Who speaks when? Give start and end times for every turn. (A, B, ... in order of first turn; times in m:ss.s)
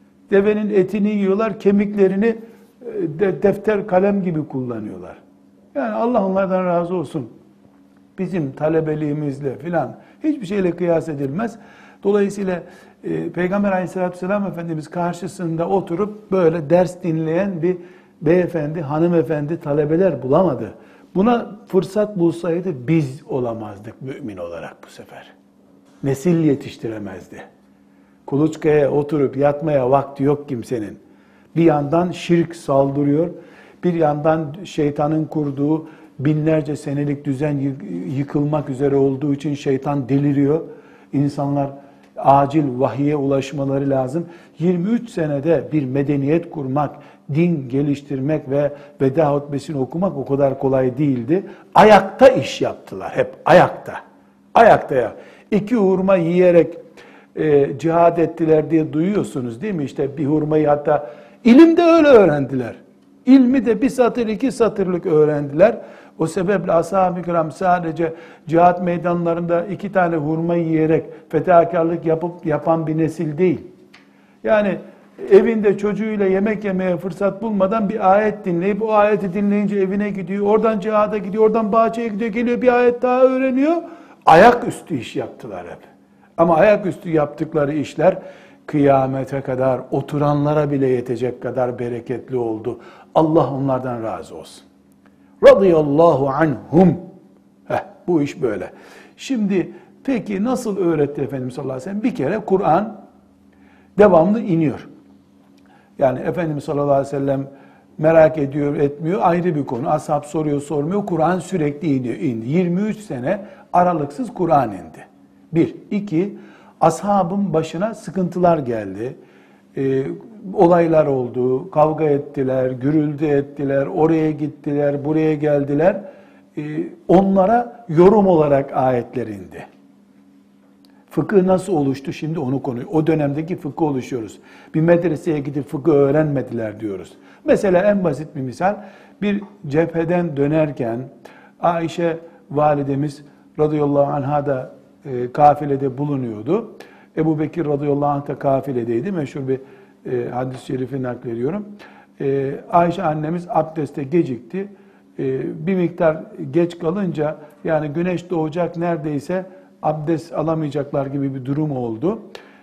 0:00.3-0:05.2 A
0:05.7-0:07.3 A
0:08.2-0:25.3 A
0:26.0-0:27.4 A
0:28.2-0:31.0 A
0:31.5-0:54.0 A
0:54.5-0:56.8 A
0:57.3-1:13.7 A
1:14.4-1:25.8 A
1:26.4-1:34.6 A
1:35.4-1:37.0 A
1:37.7-1:43.0 A
1:44.0-1:44.9 A
1:46.0-1:59.2 A
1:59.7-2:06.0 A
2:06.6-2:09.6 A
2:11.1-2:21.1 A
2:21.6-2:31.7 A
2:32.2-2:42.3 A